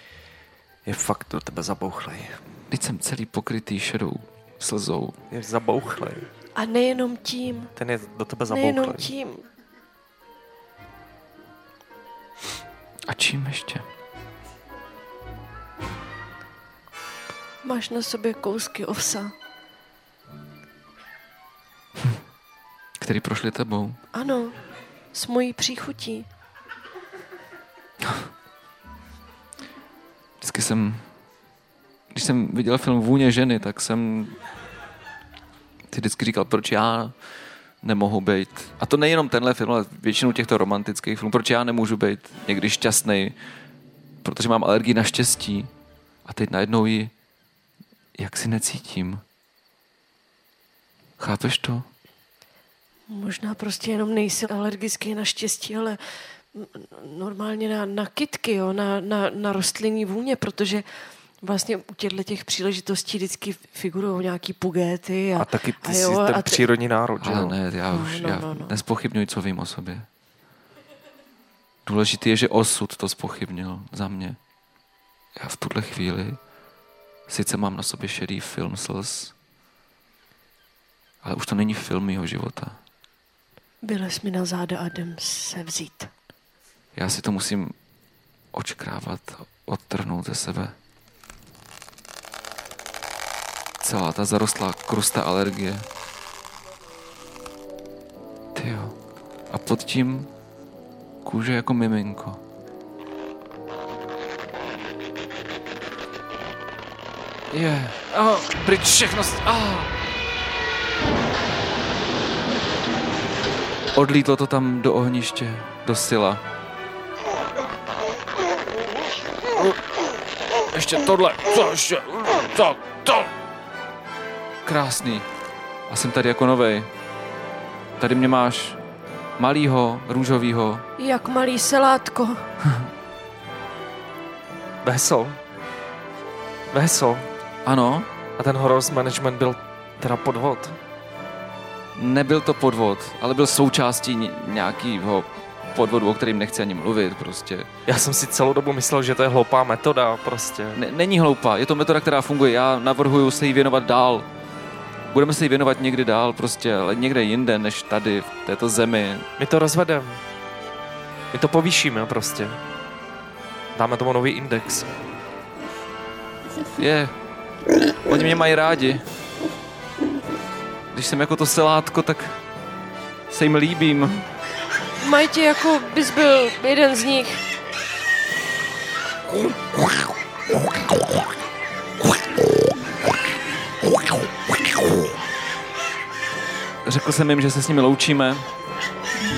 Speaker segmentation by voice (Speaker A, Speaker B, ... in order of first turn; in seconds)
Speaker A: 0.8-2.4, 5.3-6.3, 7.8-9.1, 65.4-67.6, 134.8-135.4, 136.7-137.3, 138.4-140.8, 147.9-150.8, 159.4-160.2, 161.3-162.6, 163.7-164.9
Speaker B: 2.7-5.2, 13.1-13.8, 23.0-24.0, 30.4-31.1, 32.1-34.4, 35.9-43.3, 44.2-45.7, 46.2-47.1, 48.1-49.2, 51.2-51.9, 67.2-70.0, 71.8-74.4, 75.3-76.4, 77.3-79.3, 81.2-82.8, 86.9-87.7, 88.5-90.7, 93.8-95.8, 98.5-99.0, 99.5-100.3, 101.2-102.4, 107.5-109.9, 113.9-116.4, 120.7-123.3, 124.6-125.2, 125.9-126.9, 128.0-128.8, 129.4-130.8, 137.6-138.1, 141.9-147.7, 150.7-154.3, 155.1-159.2, 166.8-167.1, 168.1-169.0, 170.9-172.4, 173.3-174.3, 186.8-188.4
Speaker C: 6.5-7.7, 8.5-9.4, 17.6-19.3, 24.1-24.6, 25.1-26.2, 53.1-60.8, 61.4-66.7, 67.9-68.7, 83.8-86.1, 131.0-132.5, 175.0-177.4